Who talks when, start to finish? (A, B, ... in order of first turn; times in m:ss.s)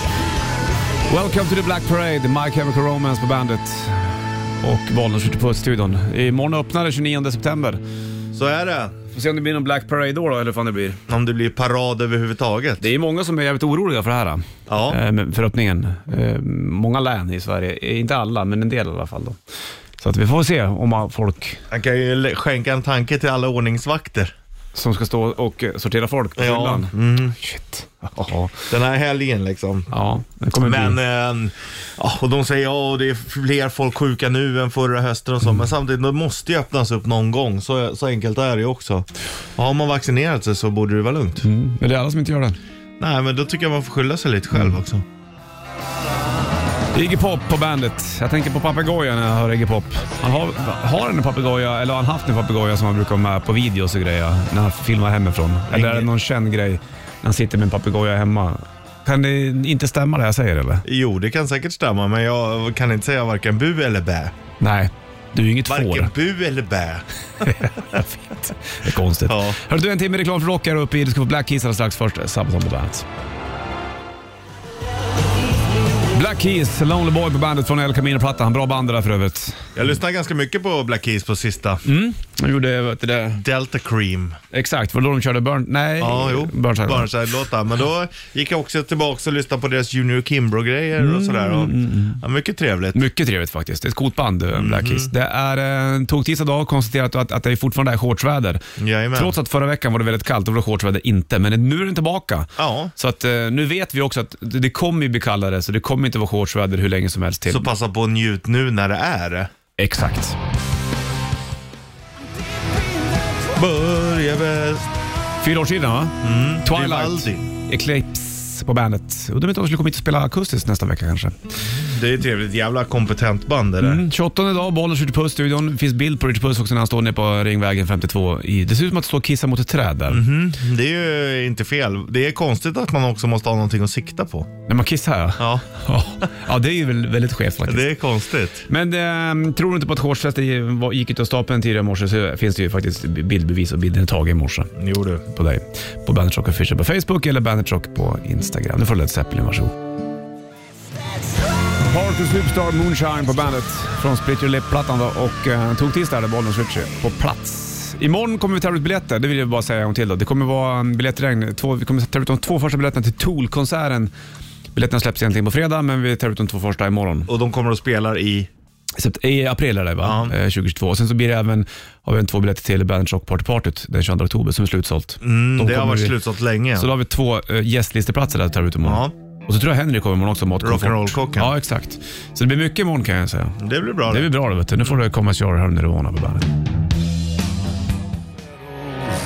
0:01.1-0:07.8 A
0:08.3-0:09.0 B
0:09.1-0:11.0 A
0:11.1-0:12.9 B
0:12.8-0:19.4 A
0:14.7-0:15.0 B
0:20.0-0:21.6 A
0:21.7-0:24.3 B
0:24.7-0:28.7 A
0:26.4-0:27.4 B
0:28.7-0:29.9 B
0:29.9-0:31.0 A
0:30.6-0:41.4 B
0:41.4-0:42.6 A
0:43.0-0:45.0 B
0:46.9-1:00.8 A
0:55.7-0:56.1 B
1:00.8-1:04.3 B
1:04.6-1:06.1 A
1:05.7-1:08.0 B
1:07.4-1:13.1 A
1:09.3-1:09.6 B
1:16.1-1:19.7 A
1:19.8-1:21.8 B
1:21.8-1:23.4 A
1:23.4-1:24.4 B
1:24.5-1:27.1 A
1:26.0-1:33.0 B
1:31.0-1:32.2 A
1:32.9-1:38.6 A
1:34.6-1:35.1 B
1:38.8-1:39.4 B
1:39.2-1:47.7 A
1:42.6-1:42.9 B
1:47.5-1:49.5 B
1:49.8-1:50.4 A
1:53.5-1:54.9 B
1:55.4-2:01.4 A
1:56.2-1:57.5 B
2:01.7-2:04.0 B
2:03.8-2:10.2 A
2:10.1-2:14.5 B
2:14.7-2:17.9 A
2:15.4-2:15.7 B
2:17.7-2:18.7 B
2:18.7-2:24.7 A
2:24.8-2:25.2 B
2:25.3-2:29.7 A
2:31.8-2:44.1 A
2:44.7-2:47.3 A
2:47.3-2:48.5 B
2:49.0-2:56.2 A
2:50.0-2:50.3 B
2:55.2-2:56.9 B
2:56.8-3:06.5 A
2:58.8-2:59.1 B
3:00.6-3:01.5 B
3:03.6-3:04.3 B